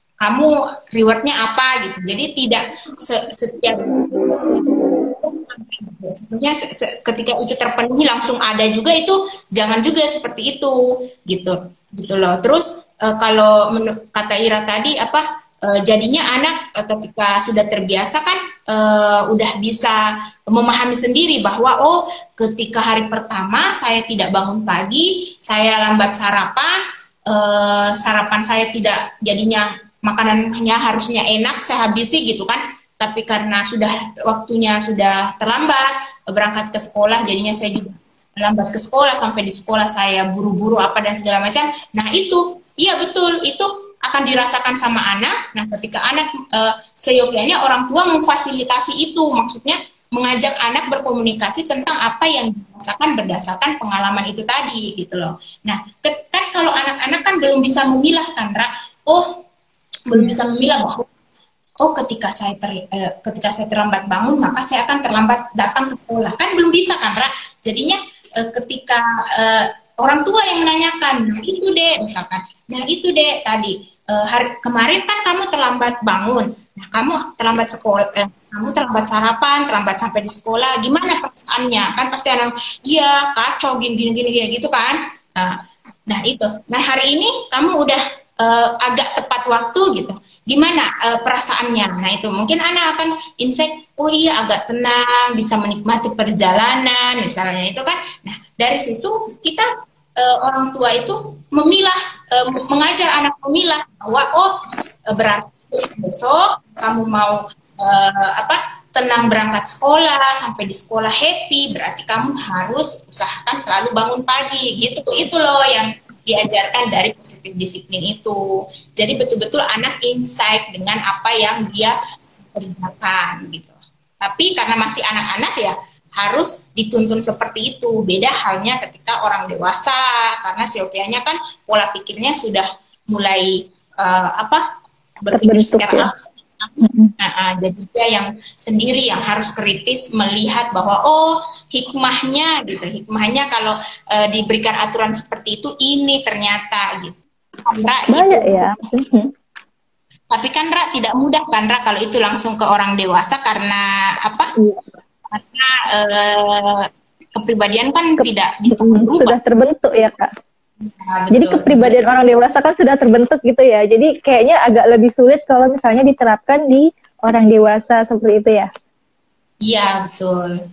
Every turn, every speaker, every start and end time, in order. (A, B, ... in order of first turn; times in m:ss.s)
0:00.2-0:26.7 A
0:27.3-0:59.4 A
1:00.1-1:01.1 A
1:01.8-1:44.5 A
1:45.1-2:01.9 A
2:02.5-2:14.6 A
2:15.2-2:28.7 A
2:15.3-2:16.1 B
2:16.8-2:17.1 B
2:28.1-2:29.3 B
2:30.3-2:34.5 A
2:35.3-2:39.4 A
2:38.7-2:40.3 B
2:40.8-2:42.0 A
2:41.3-2:48.7 B
2:49.6-2:50.6 A